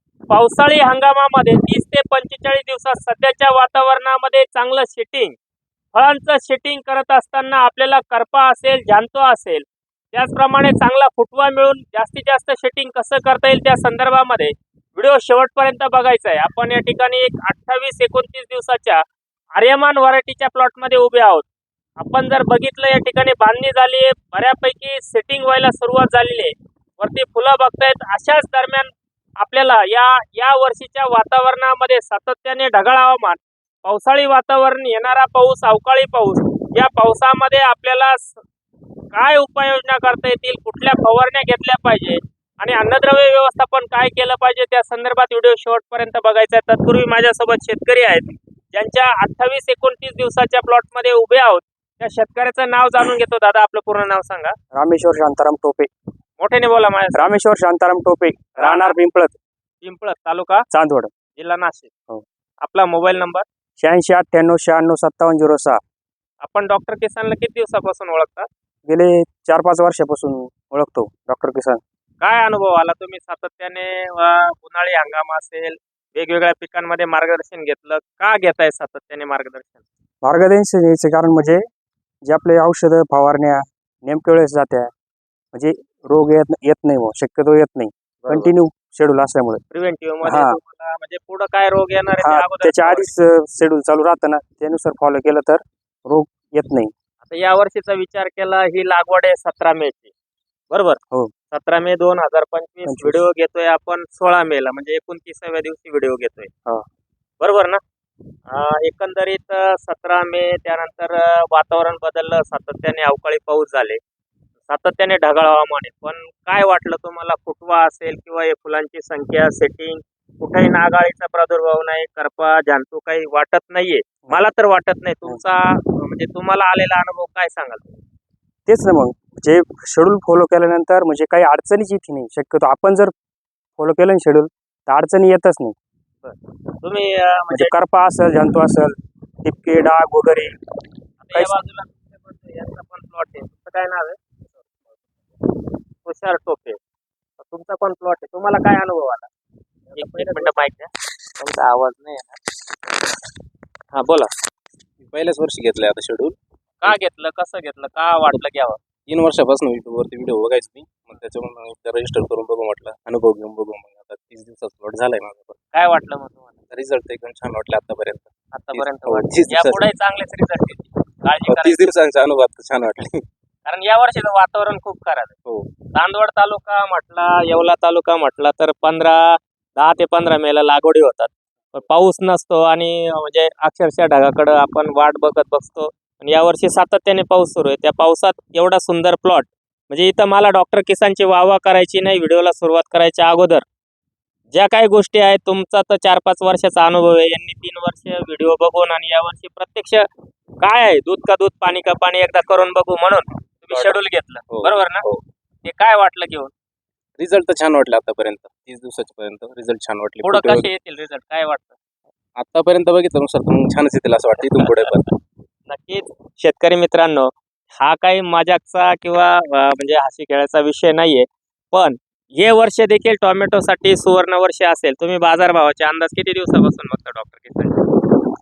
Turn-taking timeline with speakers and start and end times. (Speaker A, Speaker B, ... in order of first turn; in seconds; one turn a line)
Speaker A: 0.3-5.4
Speaker A: 5.9-19.0
Speaker A: 19.6-21.5
Speaker A: 22.0-38.4
Speaker A: 39.1-54.5
Speaker B: 54.7-55.9
Speaker A: 56.4-57.3
Speaker B: 57.1-59.4
Speaker A: 58.6-59.0
Speaker A: 59.8-60.6
Speaker B: 60.7-61.1
Speaker A: 61.4-61.9
Speaker A: 62.6-63.5
Speaker B: 63.8-65.8
Speaker A: 66.4-68.5
Speaker B: 68.9-71.8
Speaker A: 72.2-79.8
Speaker B: 80.2-81.6
Speaker B: 82.2-84.9
Speaker B: 85.5-89.6
Speaker A: 89.7-93.1
Speaker B: 90.2-90.6
Speaker B: 92.2-96.9
Speaker A: 97.2-100.1
Speaker A: 100.7-101.0
Speaker A: 101.5-106.5
Speaker B: 102.8-103.2
Speaker A: 107.4-107.8
Speaker A: 108.5-114.0
Speaker A: 114.7-128.0
Speaker B: 128.7-133.1
Speaker B: 133.8-135.8
Speaker A: 136.2-137.7
Speaker B: 137.5-140.6
Speaker A: 141.2-144.7
Speaker A: 146.0-146.8
Speaker A: 147.4-149.3
Speaker A: 150.0-152.4
Speaker C: 150.0-150.2
Speaker A: 153.9-154.3
Speaker C: 155.0-156.9
Speaker A: 156.8-158.8
Speaker C: 159.1-165.6
Speaker A: 165.7-166.5
Speaker C: 166.7-169.9
Speaker A: 168.5-171.9
Speaker C: 171.5-173.2
Speaker A: 173.7-175.3
Speaker A: 175.9-193.6
Speaker A: 194.5-200.1
Speaker A: 200.6-205.1
Speaker C: 204.5-205.2
Speaker A: 205.7-206.5
Speaker C: 207.2-210.7
Speaker A: 210.2-211.8
Speaker C: 212.4-215.0
Speaker A: 214.4-215.1
Speaker A: 215.7-227.9